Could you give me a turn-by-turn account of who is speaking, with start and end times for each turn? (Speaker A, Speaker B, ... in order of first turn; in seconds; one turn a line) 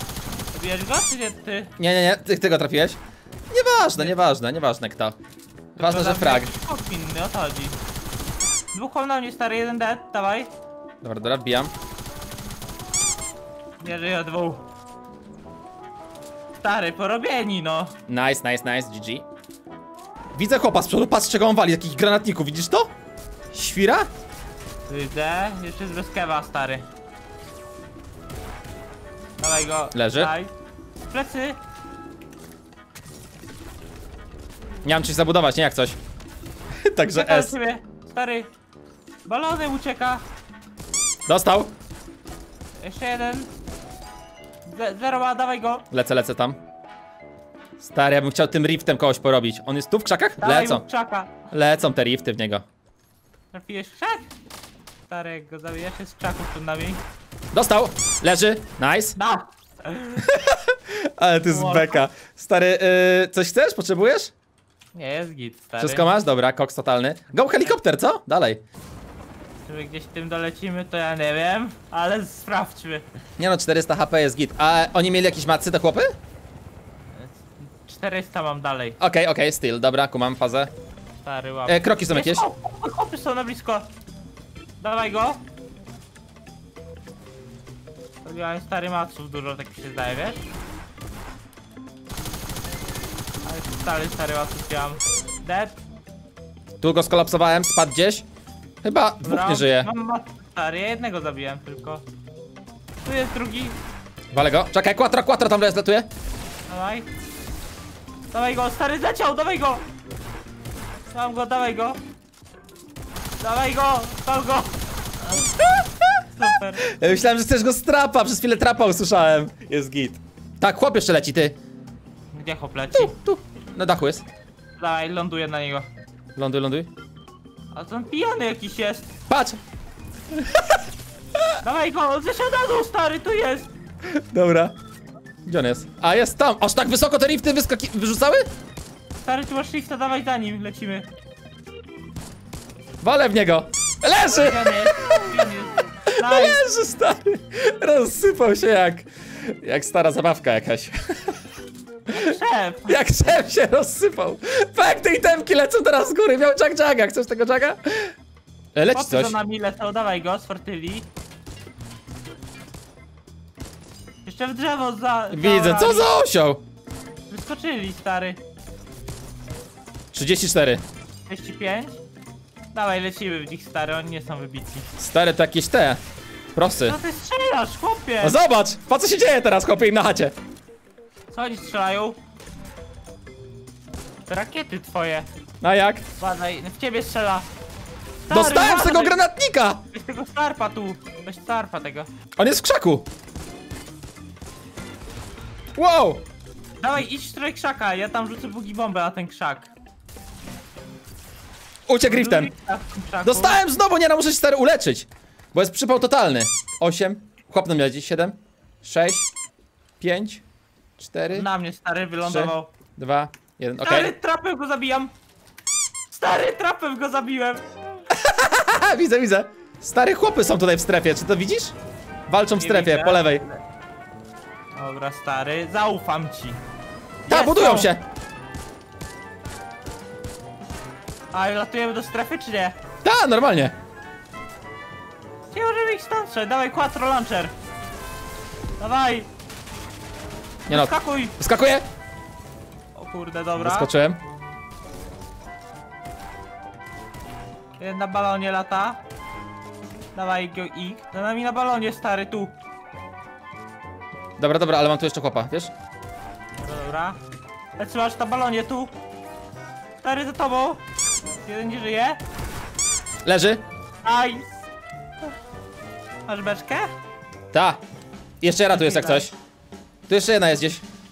Speaker A: 0.5-1.7
Speaker B: 1.8-3.0
Speaker B: 3.5-5.2
Speaker B: 5.8-6.5
Speaker A: 5.8-7.8
Speaker A: 8.7-10.5
Speaker B: 11.0-11.7
Speaker A: 13.8-14.7
Speaker A: 16.6-17.9
Speaker B: 18.1-19.3
Speaker B: 20.3-22.9
Speaker B: 23.5-24.1
Speaker A: 24.9-26.9
Speaker A: 29.4-30.5
Speaker B: 29.9-30.3
Speaker A: 31.1-31.6
Speaker B: 34.8-36.0
Speaker B: 36.9-37.5
Speaker A: 37.0-38.5
Speaker A: 39.2-40.2
Speaker B: 41.3-41.7
Speaker A: 42.8-43.5
Speaker A: 44.7-45.8
Speaker B: 45.9-46.6
Speaker B: 47.8-50.8
Speaker A: 50.4-51.5
Speaker B: 51.5-52.6
Speaker A: 53.5-54.3
Speaker A: 55.1-57.0
Speaker B: 57.5-59.2
Speaker A: 59.2-60.3
Speaker B: 60.2-64.3
Speaker A: 61.5-62.0
Speaker A: 64.9-66.1
Speaker B: 65.8-68.6
Speaker A: 67.5-67.7
Speaker A: 69.6-73.1
Speaker B: 73.4-76.1
Speaker A: 77.1-79.0
Speaker B: 79.0-80.7
Speaker A: 81.2-83.9
Speaker B: 81.7-82.5
Speaker A: 84.8-85.4
Speaker A: 88.2-90.5
Speaker A: 93.5-95.8
Speaker B: 96.8-98.3
Speaker B: 98.8-99.9
Speaker A: 99.2-102.0
Speaker A: 103.0-103.8
Speaker B: 104.3-106.1
Speaker A: 106.7-107.1
Speaker A: 108.3-109.8
Speaker A: 111.1-112.0
Speaker A: 113.4-115.5
Speaker B: 115.6-116.0
Speaker A: 116.3-116.9
Speaker B: 116.9-121.6
Speaker A: 122.3-123.2
Speaker B: 122.9-124.2
Speaker A: 124.8-125.9
Speaker B: 126.4-126.9
Speaker A: 127.7-129.1
Speaker B: 129.3-129.6
Speaker A: 131.6-133.7
Speaker B: 134.1-134.8
Speaker B: 135.4-138.4
Speaker A: 139.2-141.1
Speaker B: 143.0-145.5
Speaker A: 144.3-146.6
Speaker B: 146.2-151.4
Speaker A: 152.1-153.0
Speaker B: 152.9-158.1
Speaker B: 158.8-159.4
Speaker A: 158.9-161.1
Speaker A: 164.2-166.1
Speaker B: 165.3-166.6
Speaker A: 167.3-168.4
Speaker B: 170.1-170.8
Speaker A: 171.3-172.0
Speaker A: 172.7-174.9
Speaker B: 175.0-176.0
Speaker B: 176.6-177.0
Speaker A: 176.8-178.4
Speaker B: 178.2-180.3
Speaker A: 181.3-182.2
Speaker A: 184.3-185.3
Speaker B: 185.6-186.0
Speaker A: 186.2-187.5
Speaker A: 188.3-189.2
Speaker B: 188.3-189.8
Speaker A: 189.9-192.1
Speaker B: 192.4-193.1
Speaker B: 195.8-196.2
Speaker A: 196.8-199.7
Speaker B: 201.9-202.5
Speaker A: 202.1-203.6
Speaker B: 203.2-209.3
Speaker B: 210.0-210.4
Speaker B: 211.0-211.5
Speaker A: 211.3-212.7
Speaker B: 212.2-214.1
Speaker A: 213.8-215.1
Speaker A: 216.1-217.7
Speaker B: 218.1-221.8
Speaker B: 222.3-223.4
Speaker A: 222.6-223.6
Speaker A: 224.8-226.6
Speaker A: 227.3-227.9
Speaker B: 227.3-228.0
Speaker A: 231.3-232.8
Speaker B: 233.0-233.8
Speaker A: 235.5-237.5
Speaker A: 238.8-239.3
Speaker A: 240.7-241.3
Speaker B: 240.7-241.8
Speaker A: 242.9-243.9
Speaker B: 243.6-244.2
Speaker A: 247.8-249.0
Speaker A: 250.2-252.6
Speaker B: 254.4-255.7
Speaker A: 256.6-257.2
Speaker A: 257.8-258.9
Speaker A: 260.0-260.8
Speaker A: 261.4-262.2
Speaker B: 263.2-263.6
Speaker A: 264.0-264.5
Speaker A: 266.3-266.9
Speaker B: 267.5-267.8
Speaker B: 268.4-269.3
Speaker A: 268.7-269.3
Speaker B: 270.1-270.9